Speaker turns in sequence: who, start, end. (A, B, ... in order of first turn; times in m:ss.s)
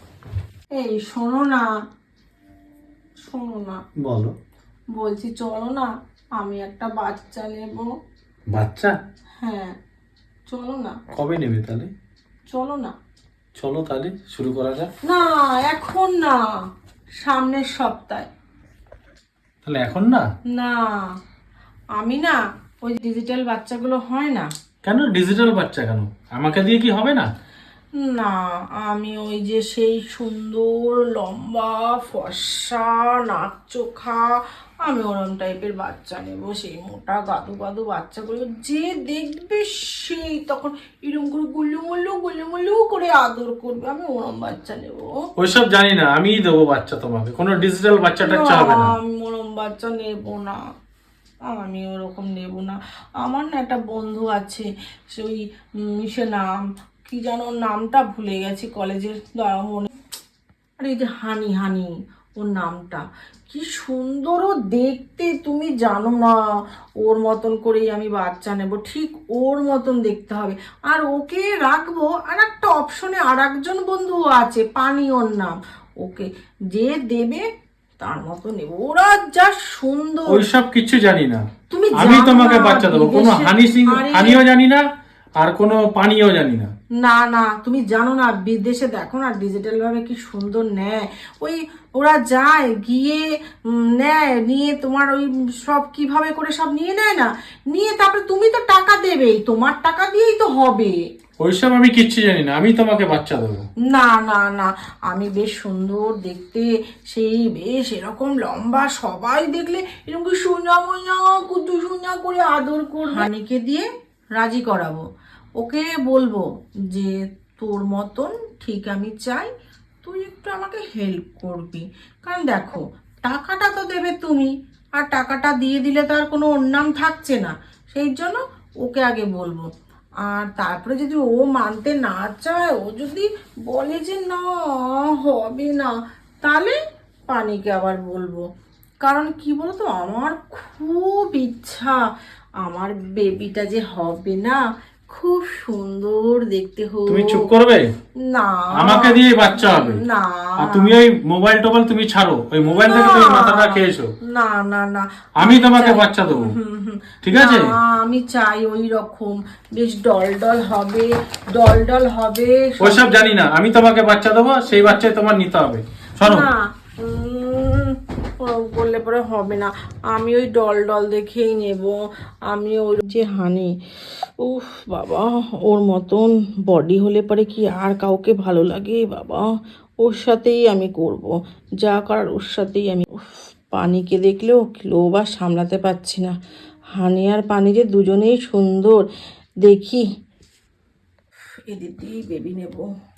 0:00.8-0:01.7 A
0:03.2-0:03.8 A
0:04.0-0:04.3 B
0:04.9-0:07.9 A
0:08.5-0:09.0 B
0:09.4-0:09.8 A
0:10.5-0:11.0 A
0:11.1-0:11.9 B
0:12.5-0:12.9 A
0:13.6-0:14.9 B
0:15.0-0:16.4 A
0:17.2-0:18.3 A
0:19.6-0:20.3 B
0:20.5-0:21.1 A
0:22.0-0:24.5 A
0:24.8-0:27.3 B
0:28.0-0:45.1 A
0:45.4-0:48.9 B
0:48.2-0:50.6 A
0:51.5-0:59.9 A
1:00.8-1:06.4 A
1:07.0-1:17.4 A
1:18.0-1:20.4 A
1:20.3-1:24.8 B
1:21.7-1:24.4 A
1:25.4-1:26.7 B
1:27.0-1:41.0 A
1:41.4-1:43.6 B
1:43.9-1:55.0 A
1:55.6-1:59.5 A
2:00.0-2:09.7 A
2:10.2-2:16.8 A
2:17.3-2:18.5 A
2:19.0-2:22.0 A
2:22.6-2:27.5 A
2:27.1-2:27.9 B
2:28.2-2:30.9 A
2:28.8-2:30.0 B
2:30.6-2:34.1 B
2:32.6-2:43.3 A
2:35.4-2:36.5 B
2:37.2-2:37.7 B
2:42.8-2:46.5 B
2:46.2-2:53.7 A
2:54.4-2:59.5 A
3:00.0-3:06.4 A
3:07.0-3:09.1 A
3:09.6-3:10.0 A
3:11.7-3:12.9 A